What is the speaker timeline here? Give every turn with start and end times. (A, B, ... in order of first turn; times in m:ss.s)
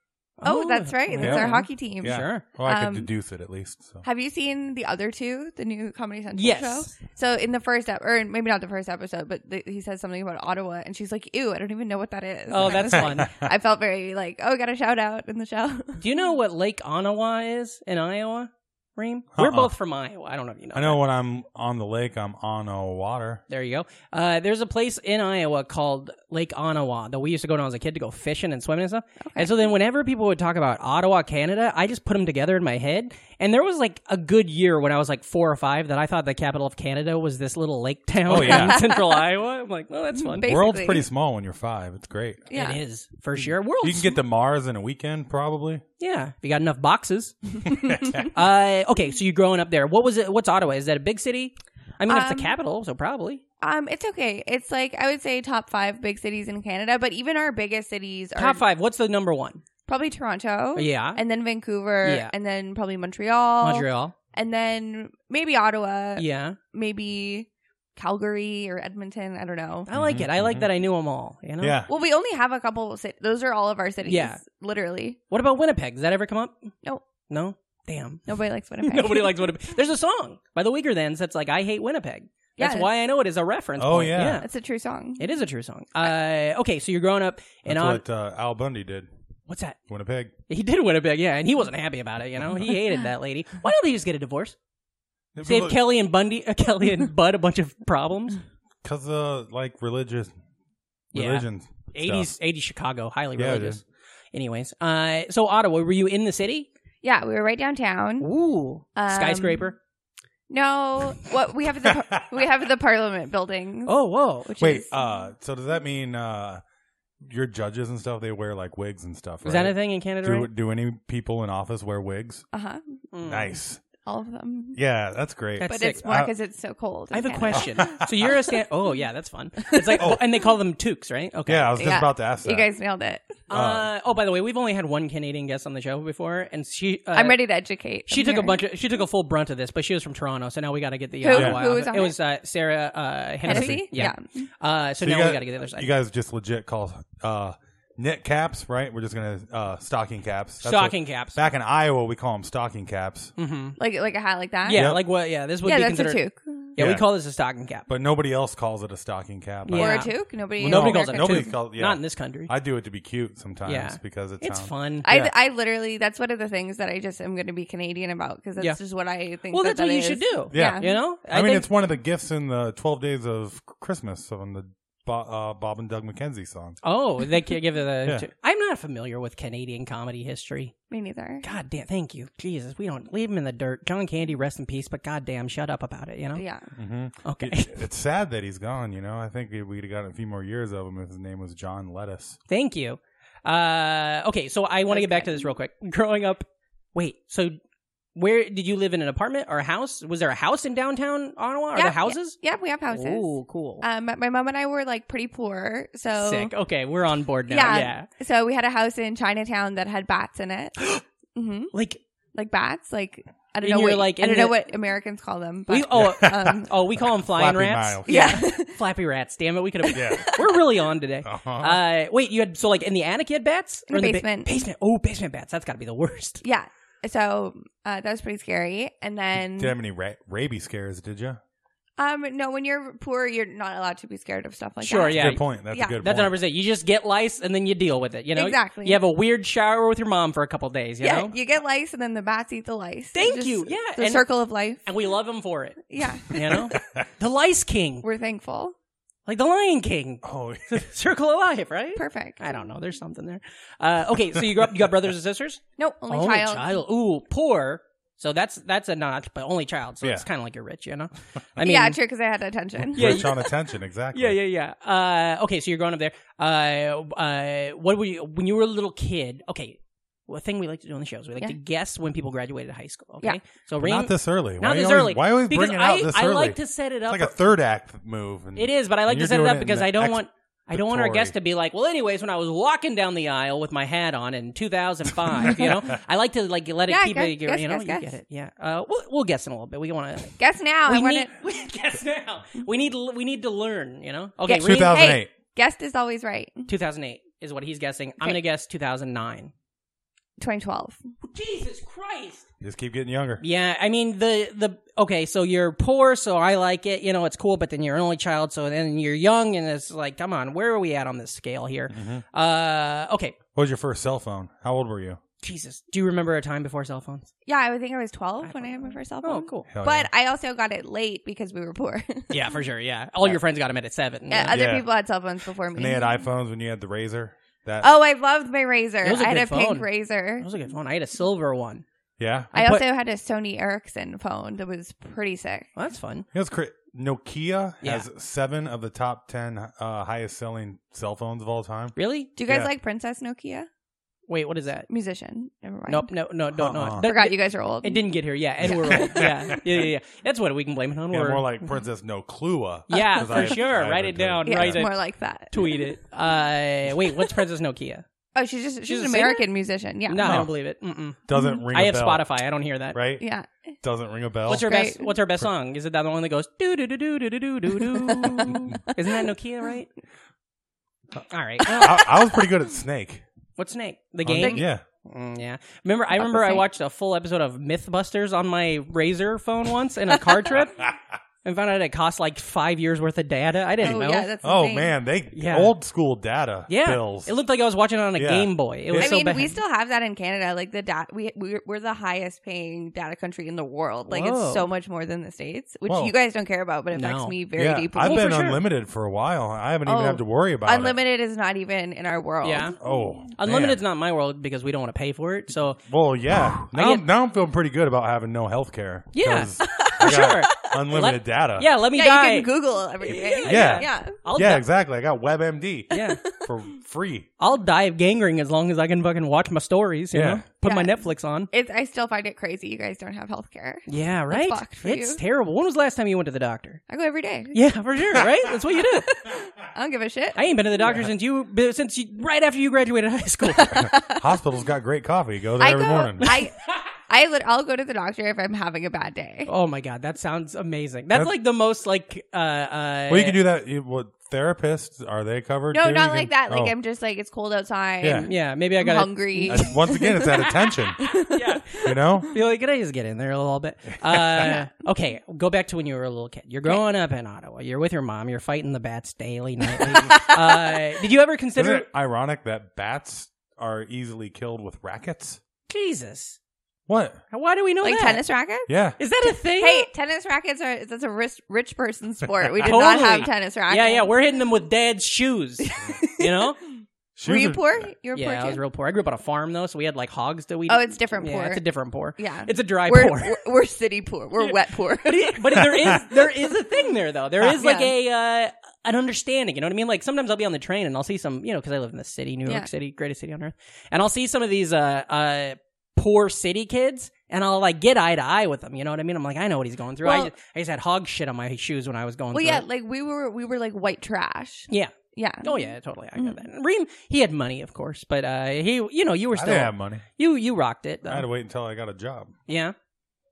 0:00.4-0:02.4 A
0:00.4-0:03.1 B
0:01.2-0:04.0 C
0:04.0-0:16.0 B
0:06.3-0:06.9 A
0:12.5-0:13.3 A
0:12.9-0:13.3 C
0:16.0-0:21.0 A
0:19.3-0:19.7 C
0:20.7-0:23.4 C
0:23.5-0:40.5 A
0:29.2-0:29.7 B
0:38.3-0:38.8 C
0:38.3-0:39.2 B
0:40.2-0:41.0 B
0:40.4-0:42.5 C
0:42.5-0:42.8 B
0:42.5-0:44.2 A
0:43.8-0:45.8 C
0:46.0-0:53.4 A
0:47.9-0:48.2 C
0:52.1-0:52.5 B
0:53.6-0:58.6 B
0:58.4-0:59.6 A
0:59.9-1:09.9 B
1:00.7-1:01.2 A
1:02.0-1:02.3 A
1:03.6-1:04.1 A
1:06.2-1:06.6 A
1:09.9-1:11.8 A
1:09.9-1:10.7 C
1:11.6-1:11.9 C
1:11.9-1:15.2 B
1:14.0-1:14.4 A
1:15.3-1:16.7 A
1:17.3-1:18.2 A
1:18.3-1:19.6 B
1:18.8-1:24.5 A
1:22.6-1:22.9 B
1:23.8-1:24.4 C
1:24.2-1:25.3 B
1:25.2-1:28.0 A
1:27.6-1:29.1 C
1:29.5-1:29.8 A
1:29.9-1:30.3 C
1:30.5-1:34.6 A
1:35.3-1:35.8 C
1:35.4-1:38.4 A
1:38.8-1:40.3 C
1:41.1-1:42.3 C
1:41.1-1:43.8 A
1:43.4-1:43.8 C
1:44.3-1:46.7 A
1:47.0-1:48.3 B
1:48.2-1:49.8 A
1:49.0-1:49.7 B
1:50.5-1:53.9 B
1:51.8-1:52.4 C
1:53.8-1:54.5 A
1:54.4-1:54.9 B
1:54.6-1:56.6 C
1:57.2-2:02.4 C
1:59.4-2:00.5 A
2:02.5-2:02.8 B
2:03.1-2:03.5 A
2:03.2-2:03.8 C
2:04.0-2:04.8 B
2:04.7-2:06.3 C
2:05.6-2:06.0 A
2:05.6-2:08.0 B
2:07.1-2:11.8 A
2:07.5-2:08.1 C
2:09.7-2:10.0 B
2:10.0-2:10.2 C
2:11.5-2:12.7 C
2:11.8-2:13.2 B
2:13.5-2:17.4 A
2:13.5-2:13.9 C
2:17.1-2:18.6 B
2:18.1-2:25.9 A
2:21.2-2:22.2 B
2:21.3-2:21.6 C
2:23.4-2:24.2 B
2:23.5-2:24.1 C
2:25.0-2:33.3 C
2:30.6-2:31.4 A
2:33.4-2:33.8 A
2:33.8-2:35.0 B
2:34.6-2:36.2 A
2:34.7-2:35.0 C
2:35.6-2:36.7 B
2:36.7-2:37.9 A
2:36.8-2:37.0 C
2:37.9-2:40.1 C
2:39.6-2:42.5 A
2:39.8-2:41.5 B
2:40.6-2:45.3 C
2:43.6-2:45.1 A
2:45.0-2:51.0 B
2:49.5-2:51.7 A
2:50.5-2:56.8 C
2:56.8-3:00.7 A
3:00.9-3:01.4 B
3:01.4-3:06.4 A
3:06.4-3:06.7 B
3:06.8-3:12.4 C
3:07.2-3:07.8 A
3:12.5-3:17.6 A
3:14.9-3:15.5 B
3:18.1-3:22.4 A
3:21.7-3:23.2 B
3:22.9-3:23.8 A
3:23.8-3:26.5 B
3:26.1-3:28.1 A
3:27.5-3:30.8 B
3:31.4-3:31.7 B
3:31.7-3:32.0 A
3:32.3-3:36.7 B
3:33.6-3:34.6 A
3:35.7-3:46.4 A
3:35.9-3:38.2 C
3:38.0-3:38.8 B
3:39.9-3:40.5 B
3:39.9-3:40.3 C
3:41.2-3:41.8 C
3:43.9-3:44.5 B
3:46.4-3:49.7 B
3:49.5-3:51.4 C
3:52.0-3:56.0 B
3:54.8-3:55.4 A
3:55.1-3:56.4 C
3:56.0-4:01.3 A
3:58.3-3:59.0 B
4:01.0-4:04.8 B
4:03.1-4:04.2 A
4:04.8-4:08.0 A
4:05.9-4:06.6 B
4:08.0-4:08.7 B
4:09.2-4:22.0 A
4:10.2-4:10.8 C
4:12.0-4:12.6 B
4:15.8-4:16.8 B
4:21.6-4:23.3 B
4:22.8-4:24.4 C
4:22.9-4:23.5 A
4:24.1-4:37.4 A
4:33.8-4:40.2 C
4:38.6-4:50.3 A
4:40.7-4:41.3 C
4:46.9-4:48.1 B
4:50.4-4:51.3 B
4:50.8-4:55.0 A
4:54.5-4:56.7 B
4:54.5-4:55.3 C
4:56.7-4:59.5 A
5:00.4-5:01.0 B
5:01.2-5:02.4 A
5:02.6-5:03.4 C
5:03.4-5:13.4 A
5:11.9-5:12.2 C
5:13.5-5:15.2 C
5:15.4-5:17.3 A
5:17.4-5:22.4 B
5:18.4-5:19.7 A
5:19.7-5:20.1 C
5:22.3-5:24.6 A
5:24.3-5:26.1 B
5:24.5-5:24.9 C
5:25.7-5:27.9 C
5:27.8-5:30.5 B
5:29.0-5:29.9 A
5:30.4-5:31.8 A
5:32.2-5:32.5 C
5:32.5-5:32.8 A
5:32.5-5:35.7 B
5:35.8-5:36.2 A
5:36.3-5:41.9 C
5:42.0-5:42.3 A
5:42.4-5:43.7 B
5:44.3-5:44.9 A
5:44.9-5:46.1 B
5:45.9-5:51.4 A
5:46.6-5:47.0 C
5:47.0-5:48.0 B
5:48.6-5:49.3 B
5:48.6-5:49.6 C
5:51.1-5:54.9 C
5:52.9-5:54.9 A
5:52.9-5:53.6 B
5:54.4-5:55.9 B
5:55.5-5:58.0 A
5:58.3-6:00.4 B
5:58.8-5:59.4 A
6:00.1-6:03.0 A
6:00.2-6:00.5 C
6:01.2-6:02.2 C
6:01.3-6:01.6 B
6:02.9-6:03.2 C
6:03.2-6:03.6 B
6:03.8-6:04.7 C
6:04.5-6:09.9 A
6:04.5-6:05.1 B
6:07.9-6:08.8 B
6:11.3-6:12.1 A
6:11.8-6:13.2 C
6:13.6-6:20.9 A
6:14.2-6:14.8 C
6:16.2-6:16.6 B
6:21.4-6:24.3 A
6:23.8-6:24.9 B
6:23.8-6:27.3 C
6:25.3-6:25.7 A
6:26.7-6:29.6 A
6:28.2-6:29.2 C
6:29.0-6:38.3 B
6:34.1-6:34.7 A
6:35.9-6:36.1 C
6:36.9-6:37.4 A
6:37.6-6:41.0 C
6:38.0-6:38.6 A
6:39.8-6:43.1 B
6:42.4-6:42.8 A
6:42.8-6:43.8 C
6:43.4-6:45.8 A
6:45.8-6:51.7 C
6:46.6-6:47.0 A
6:49.1-6:52.5 A
6:49.7-6:50.7 B
6:51.9-6:54.2 B
6:53.0-6:54.6 A
6:53.4-6:57.3 C
6:55.9-6:56.2 A
6:56.0-6:56.4 B
6:57.4-7:01.5 A
7:00.1-7:00.4 C
7:00.6-7:01.0 B
7:01.5-7:05.2 B
7:03.9-7:06.8 A
7:06.9-7:07.6 B
7:07.5-7:09.1 A
7:08.8-7:10.4 B
7:10.3-7:13.8 A
7:13.5-7:14.2 B
7:13.7-7:16.3 C
7:15.6-7:19.5 B
7:19.4-7:23.4 A
7:23.1-7:26.7 C
7:25.7-7:32.2 B
7:28.0-7:28.3 C
7:28.2-7:29.8 A
7:29.5-7:31.0 C
7:31.3-7:41.9 A
7:31.8-7:32.3 C
7:34.0-7:34.5 C
7:34.4-7:34.7 B
7:39.8-7:40.8 B
7:41.6-7:45.4 C
7:45.7-7:46.4 A
7:46.9-7:47.2 C
7:47.3-7:48.2 A
7:47.8-7:48.7 B
7:48.7-7:49.0 C
7:49.0-7:49.9 A
7:49.4-7:54.1 B
7:52.6-7:56.6 A
7:55.6-7:56.7 B
7:57.2-7:57.9 C
7:57.2-7:58.6 B
7:58.1-8:03.4 A
8:00.7-8:01.6 B
8:02.2-8:06.0 B
8:04.4-8:22.6 A
8:07.4-8:07.9 B
8:20.0-8:20.3 B
8:22.3-8:26.4 B
8:24.7-8:31.2 A
8:29.3-8:30.0 C
8:31.1-8:32.3 C
8:32.5-8:32.7 A